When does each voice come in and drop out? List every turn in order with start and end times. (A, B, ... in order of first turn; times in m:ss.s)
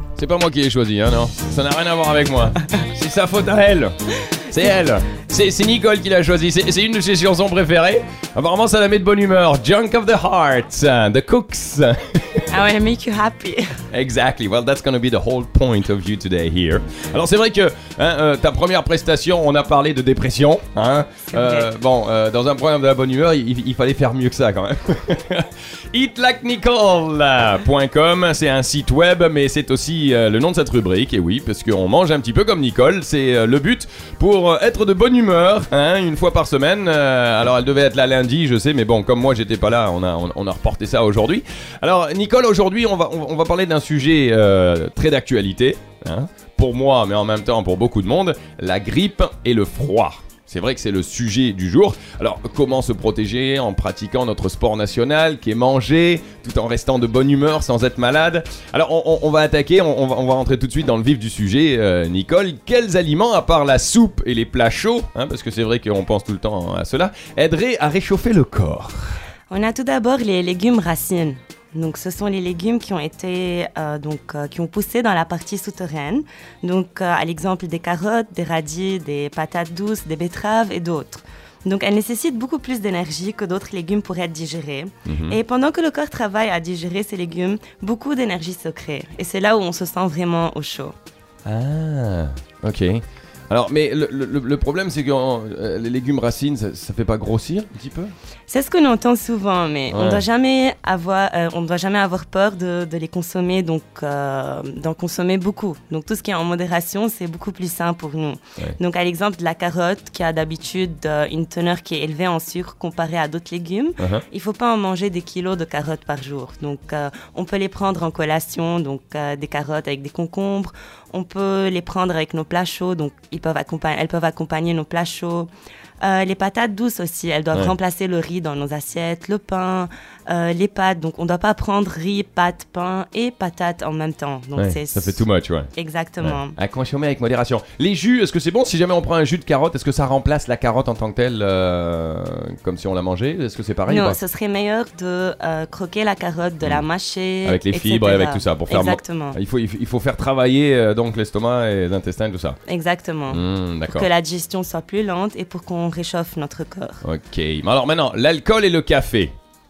0:00.2-0:12.5 A
0:12.5-0:13.8 B
0:13.9-1:09.1 A
0:21.3-0:21.7 B
1:09.5-1:30.9 B
1:25.0-1:25.4 A
1:31.4-1:38.1 A
1:38.5-2:05.5 B
1:39.9-1:40.2 A
1:54.0-1:54.2 A
2:06.0-2:16.6 B
2:14.6-2:15.7 A
2:16.2-2:24.2 A
2:23.9-2:29.4 B
2:27.4-2:32.6 A
2:32.7-2:37.0 B
2:33.3-2:34.1 A
2:37.0-2:39.3 A